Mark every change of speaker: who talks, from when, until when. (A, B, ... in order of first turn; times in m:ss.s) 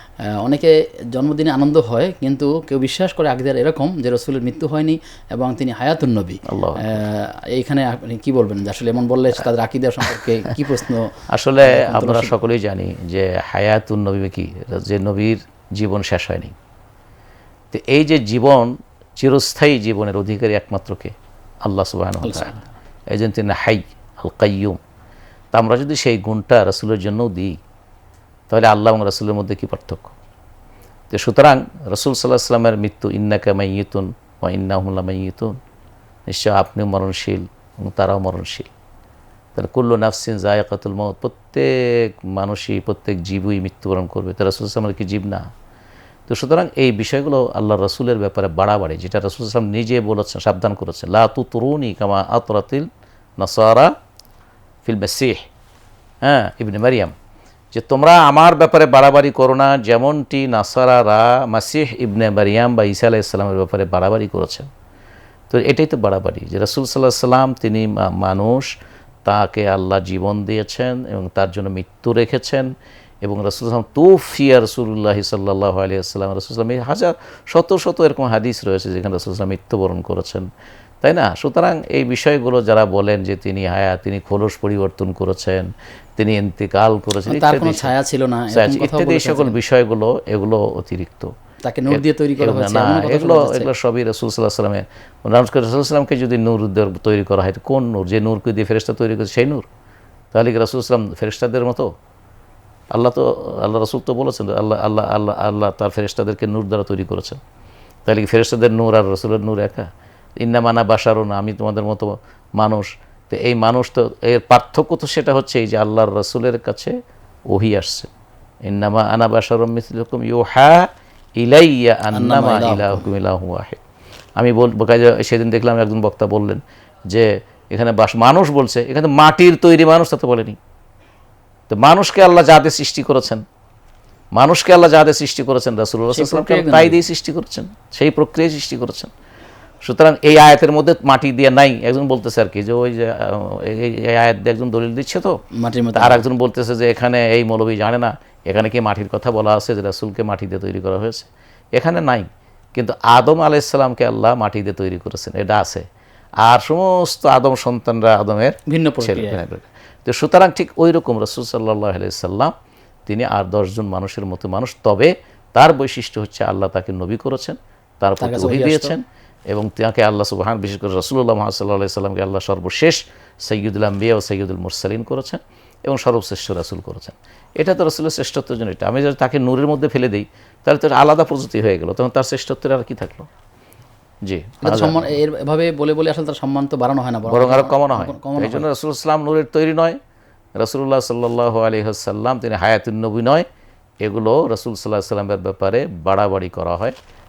0:00.4-0:12.4 A
0:06.4-0:07.0 B
0:11.3-0:16.5 B
0:17.7-0:21.1 B
0:21.6-0:22.6 B
0:22.2-0:22.6 A
0:23.1-0:24.8 B
0:25.5-0:27.5 B
0:28.5-0:30.1 B
0:31.1-0:35.6 B
0:36.3-0:38.7 B
0:39.6-0:45.4 B
0:46.3-0:52.9 B
0:53.4-0:53.9 B
0:54.8-0:55.4 B
0:56.2-0:57.1 B
0:57.7-1:04.7 B
1:05.5-1:20.5 B
1:21.0-1:27.9 B
1:27.2-1:29.6 A
1:28.5-1:31.3 B
1:31.6-1:33.7 A
1:31.9-1:39.6 B
1:40.3-1:41.9 B
1:42.9-1:47.4 B
1:48.0-1:49.8 B
1:50.4-1:56.9 B
1:57.5-1:58.1 B
1:58.6-2:03.8 B
2:02.1-2:03.0 A
2:04.4-2:10.6 B
2:11.7-2:13.4 B
2:14.3-2:19.1 B
2:16.1-2:17.0 A
2:19.8-2:25.4 B
2:25.6-2:26.3 A
2:25.9-2:35.8 B
2:36.4-2:42.5 B
2:38.7-2:39.4 A
2:43.1-3:03.3 B
2:48.2-2:49.0 A
3:04.2-3:05.2 B
3:04.6-3:08.7 A
3:07.2-3:10.0 B
3:10.6-3:13.4 B
3:14.0-3:17.0 B